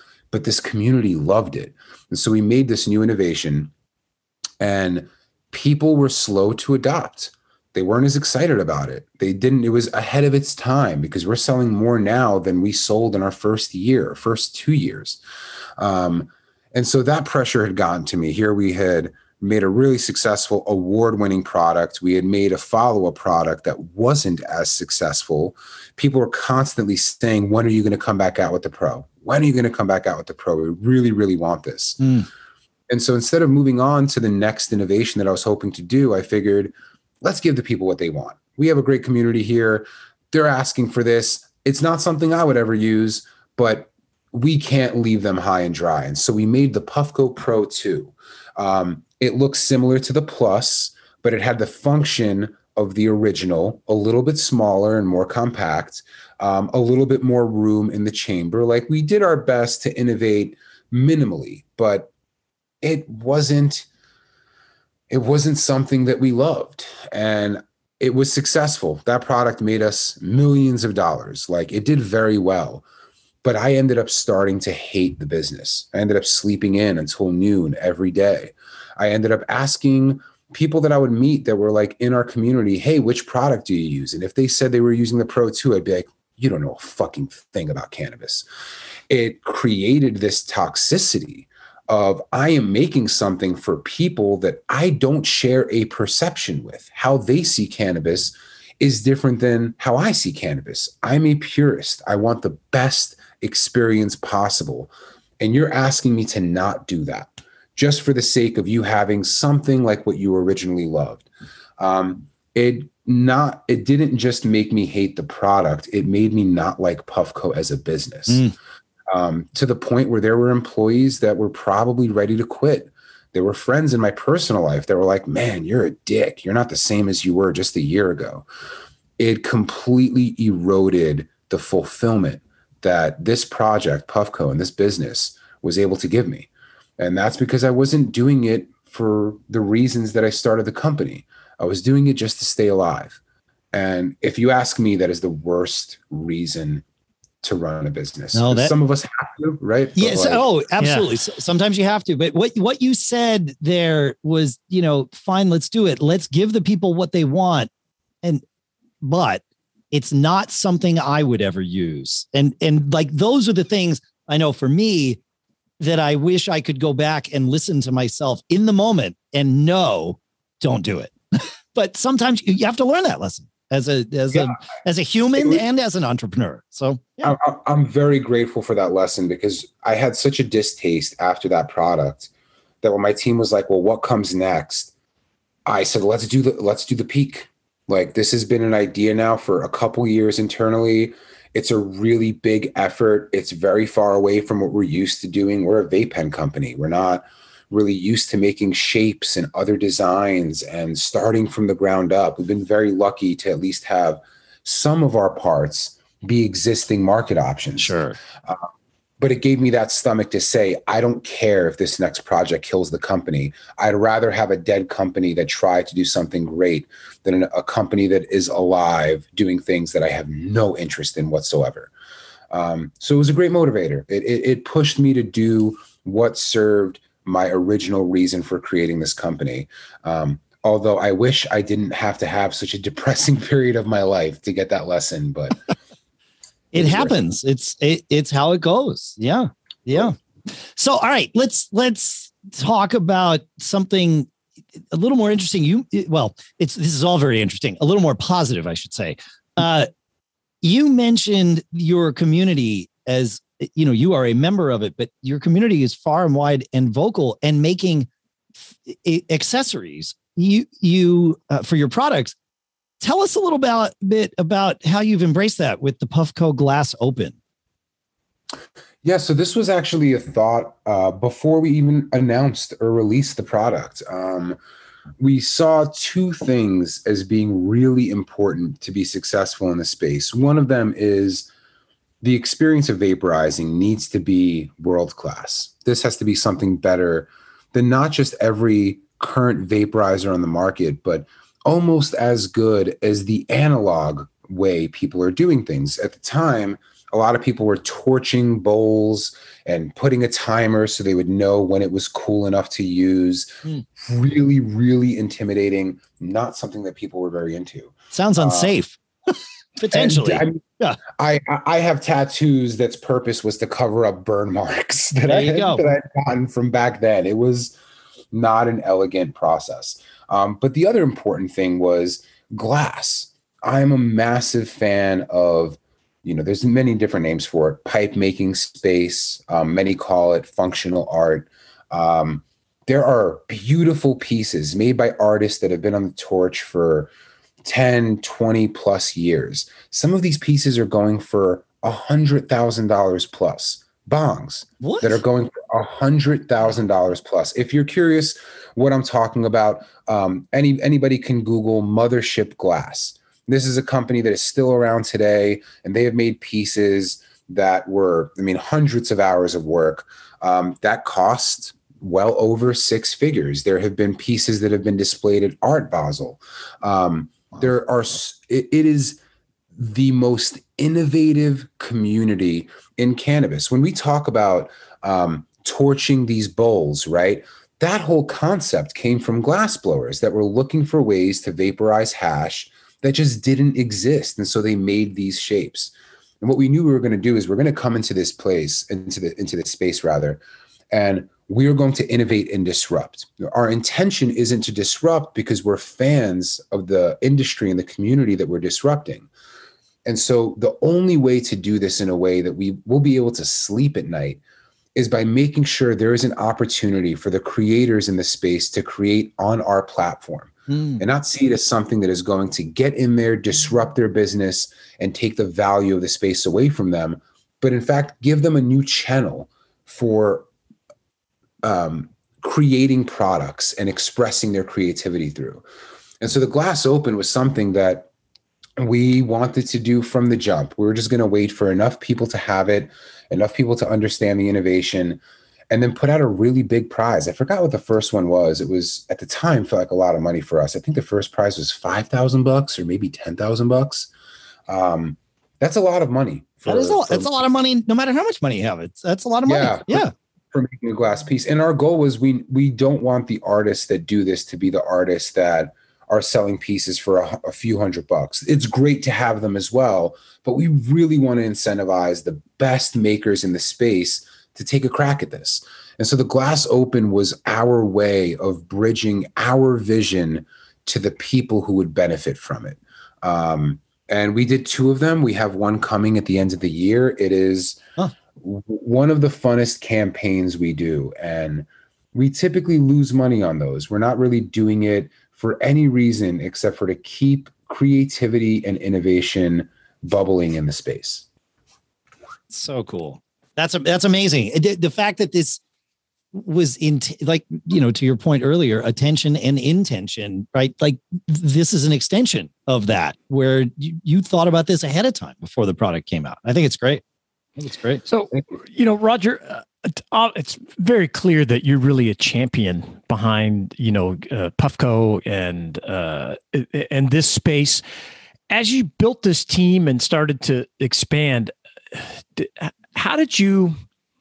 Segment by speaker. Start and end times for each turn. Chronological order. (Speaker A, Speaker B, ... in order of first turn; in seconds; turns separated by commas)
Speaker A: 0.3-3.7, Speaker A: 4.6-15.2, Speaker A: 15.8-32.1, Speaker B: 32.0-32.3, Speaker A: 32.9-62.1, Speaker A: 62.8-63.9, Speaker A: 65.1-72.8, Speaker A: 73.4-88.5, Speaker A: 89.1-111.3, Speaker A: 111.8-118.5, Speaker A: 119.1-128.4, Speaker A: 129.2-143.2, Speaker A: 143.7-146.8, Speaker A: 147.4-150.5, Speaker B: 148.3-148.7, Speaker B: 149.9-157.7, Speaker C: 150.8-151.1, Speaker B: 159.0-165.2, Speaker B: 165.8-177.3, Speaker A: 177.2-182.3, Speaker A: 182.8-184.9, Speaker A: 185.7-208.7, Speaker B: 207.8-208.2, Speaker A: 209.2-221.9, Speaker A: 222.5-235.7, Speaker B: 236.7-244.3, Speaker A: 236.7-237.2, Speaker B: 244.9-249.9, Speaker B: 250.6-258.1, Speaker B: 258.8-262.3, Speaker B: 263.0-267.4, Speaker A: 269.0-274.6, Speaker A: 275.2-281.5, Speaker A: 282.2-308.8, Speaker B: 308.1-309.0, Speaker B: 309.8-311.0, Speaker A: 309.9-317.8, Speaker B: 315.3-315.8, Speaker A: 318.3-337.1, Speaker A: 337.6-369.2, Speaker B: 344.8-345.2, Speaker A: 369.7-390.4, Speaker A: 390.9-399.3, Speaker A: 400.0-404.4, Speaker A: 404.9-420.5, Speaker B: 410.7-411.0, Speaker A: 421.6-425.6, Speaker A: 426.2-428.1, Speaker A: 428.8-444.1, Speaker A: 444.7-447.4, Speaker B: 446.6-450.1, Speaker A: 449.4-477.8, Speaker A: 478.4-491.3, Speaker B: 492.5-495.6, Speaker B: 496.3-507.0, Speaker B: 507.6-508.0, Speaker C: 508.1-517.8, Speaker C: 518.5-523.8